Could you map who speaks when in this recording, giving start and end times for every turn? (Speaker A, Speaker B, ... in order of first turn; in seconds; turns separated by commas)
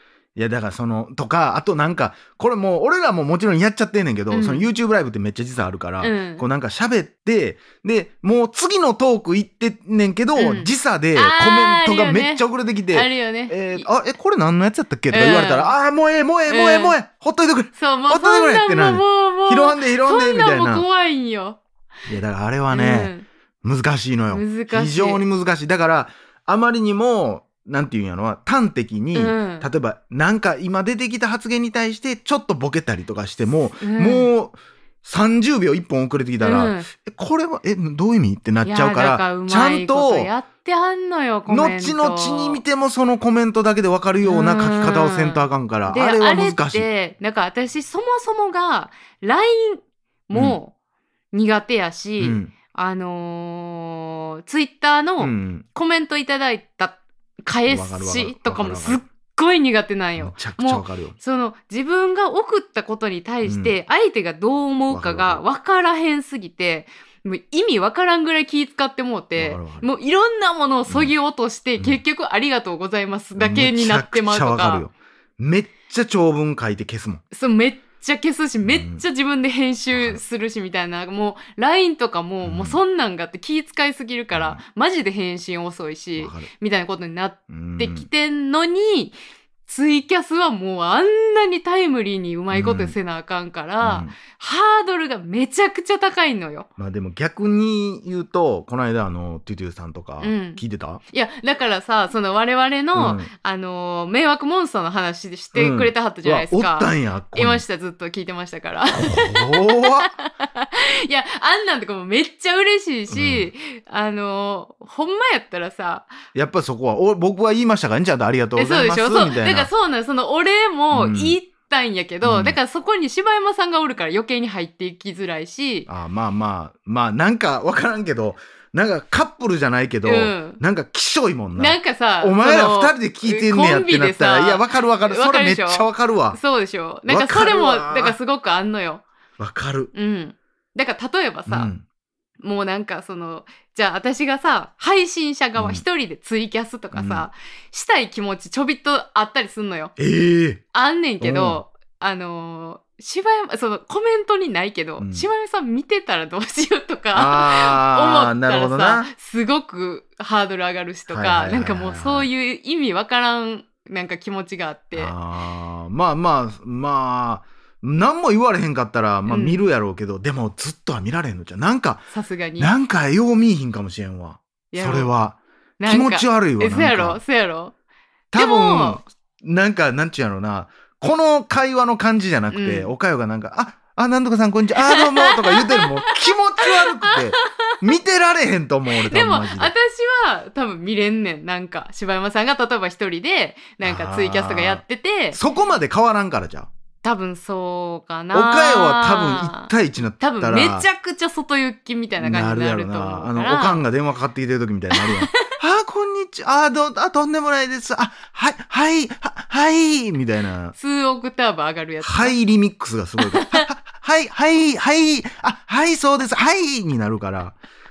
Speaker A: 0.4-20.9, Speaker B: 4.3-4.7, Speaker B: 6.0-6.4, Speaker B: 10.4-13.9, Speaker B: 15.1-15.7, Speaker B: 16.5-16.9, Speaker B: 17.7-21.6, Speaker A: 22.1-40.3, Speaker B: 22.7-23.3, Speaker B: 24.3-25.2, Speaker B: 29.1-29.7, Speaker B: 33.8-34.3, Speaker B: 36.4-36.9, Speaker B: 38.6-42.6, Speaker A: 41.5-46.9, Speaker B: 44.2-50.7, Speaker A: 50.3-50.6, Speaker B: 51.3-74.9, Speaker A: 52.2-52.5, Speaker A: 55.2-55.7, Speaker A: 57.7-59.0, Speaker A: 60.2-61.1, Speaker A: 63.4-63.8, Speaker A: 64.9-65.4, Speaker A: 69.4-69.9, Speaker A: 70.9-71.1, Speaker A: 73.4-77.2, Speaker B: 77.3-89.2, Speaker A: 78.6-79.0, Speaker A: 79.9-80.2, Speaker A: 82.4-82.8, Speaker A: 84.3-84.6, Speaker A: 86.2-86.5, Speaker A: 87.5-88.1, Speaker B: 89.7-96.7, Speaker A: 92.5-93.0, Speaker A: 93.8-94.2, Speaker A: 96.8-101.0, Speaker B: 100.2-116.1, Speaker A: 103.0-103.3, Speaker A: 105.5-107.6, Speaker A: 108.9-110.1, Speaker A: 113.1-113.5, Speaker A: 116.3-119.7, Speaker B: 118.6-125.9, Speaker A: 120.9-121.4, Speaker A: 122.2-122.6, Speaker A: 125.9-136.4, Speaker B: 130.0-130.6, Speaker B: 131.6-139.0, Speaker A: 137.1-138.2, Speaker A: 139.4-139.9, Speaker B: 139.9-141.7, Speaker A: 141.5-141.8, Speaker B: 142.4-149.9, Speaker A: 145.6-145.8, Speaker A: 146.9-147.3, Speaker A: 150.0-150.6, Speaker B: 150.7-165.1, Speaker A: 151.2-151.6, Speaker A: 155.0-155.3, Speaker A: 157.1-159.1, Speaker A: 161.1-162.3, Speaker A: 164.9-177.2, Speaker B: 169.3-169.6, Speaker B: 172.1-172.7, Speaker B: 174.7-175.1, Speaker B: 175.8-177.7, Speaker A: 178.3-189.7, Speaker B: 178.3-179.0, Speaker B: 182.5-182.9, Speaker B: 184.8-187.8, Speaker B: 188.9-195.4, Speaker A: 193.8-196.7, Speaker B: 197.0-203.8, Speaker A: 198.3-200.9, Speaker A: 202.2-210.8, Speaker B: 204.9-205.5, Speaker B: 210.8-212.4, Speaker A: 212.0-217.6, Speaker B: 213.2-213.7